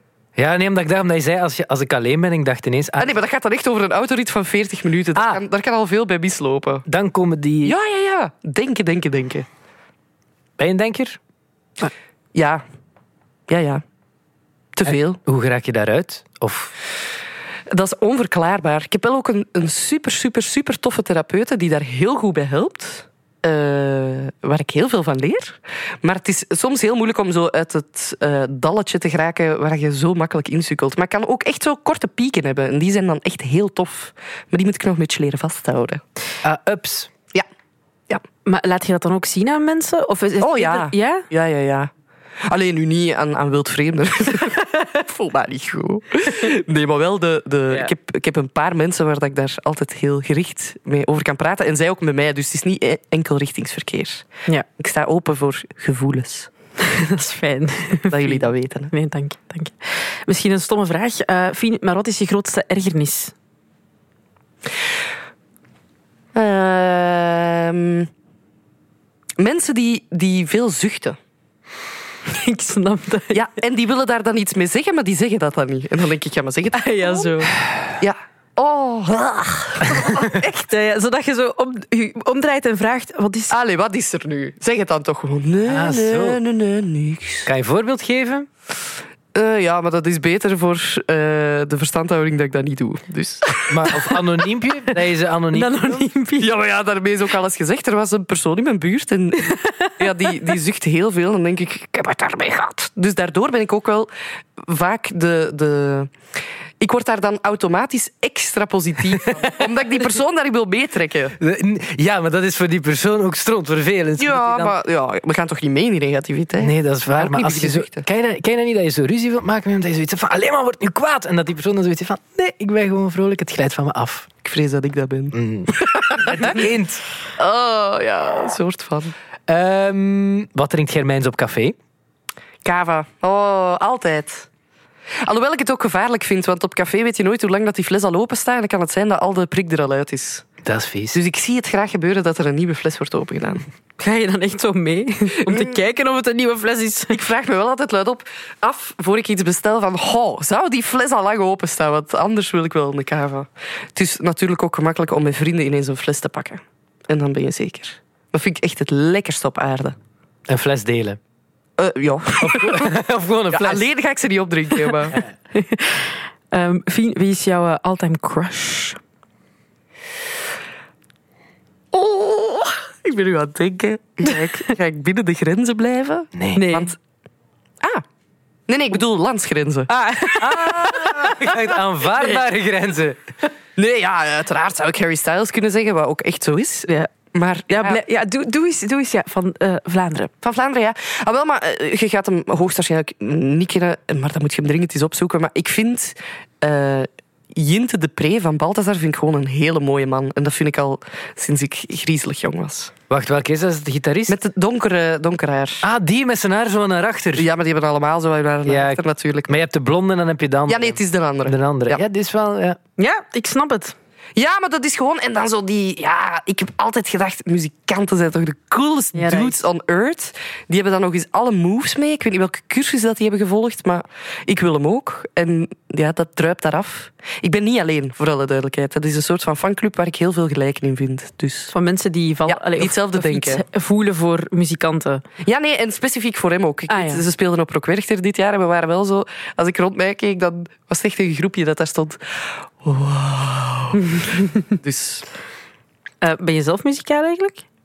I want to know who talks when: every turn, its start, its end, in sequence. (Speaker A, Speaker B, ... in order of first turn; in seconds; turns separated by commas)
Speaker A: 0.4-3.2, Speaker B: 3.0-6.8, Speaker A: 5.2-5.4, Speaker A: 6.9-7.8, Speaker B: 7.6-9.5, Speaker A: 10.6-11.2, Speaker B: 12.3-12.6, Speaker B: 13.5-13.8, Speaker B: 14.8-15.2, Speaker A: 14.9-16.7, Speaker B: 17.7-36.0, Speaker A: 36.4-37.1, Speaker C: 38.5-41.3, Speaker B: 40.4-41.9, Speaker B: 42.5-54.3, Speaker B: 54.8-56.5, Speaker C: 56.8-63.3, Speaker B: 58.1-58.9, Speaker B: 66.3-68.1, Speaker B: 69.4-71.2, Speaker C: 72.3-73.5, Speaker B: 73.3-77.4, Speaker C: 76.7-77.5, Speaker B: 78.0-80.5, Speaker C: 80.2-83.6, Speaker B: 83.5-87.5, Speaker A: 85.7-86.4, Speaker A: 87.5-88.5, Speaker B: 89.3-94.0, Speaker A: 93.7-96.1, Speaker C: 95.5-96.5, Speaker B: 96.4-106.1, Speaker C: 99.5-100.0, Speaker B: 106.8-111.4, Speaker A: 111.4-114.8, Speaker B: 114.2-118.1, Speaker A: 116.6-124.3, Speaker B: 124.4-126.6, Speaker A: 125.3-127.0, Speaker B: 127.4-129.1, Speaker A: 129.5-131.8, Speaker B: 132.7-134.5, Speaker B: 135.2-140.5, Speaker A: 140.6-141.2, Speaker B: 141.1-143.7, Speaker C: 144.0-147.2, Speaker B: 145.5-145.7, Speaker B: 147.1-159.9, Speaker A: 160.5-161.2, Speaker B: 161.8-162.9, Speaker A: 162.4-163.8, Speaker B: 163.5-165.2, Speaker C: 165.5-169.0, Speaker B: 171.9-177.0, Speaker A: 176.4-176.6, Speaker C: 176.6-176.9, Speaker B: 178.7-181.6, Speaker C: 179.9-181.5, Speaker A: 180.4-183.2, Speaker B: 183.8-188.0, Speaker C: 187.7-190.3, Speaker B: 190.4-202.9, Speaker A: 203.1-204.4, Speaker B: 204.3-205.9, Speaker A: 205.8-207.5, Speaker B: 207.4-209.6, Speaker A: 208.7-212.8, Speaker B: 210.7-212.0, Speaker C: 213.0-213.9, Speaker B: 214.4-231.7, Speaker C: 219.2-219.6, Speaker C: 231.7-235.2, Speaker B: 232.5-233.6, Speaker B: 235.4-245.3, Speaker C: 236.9-237.2, Speaker C: 244.2-244.6, Speaker C: 246.2-247.7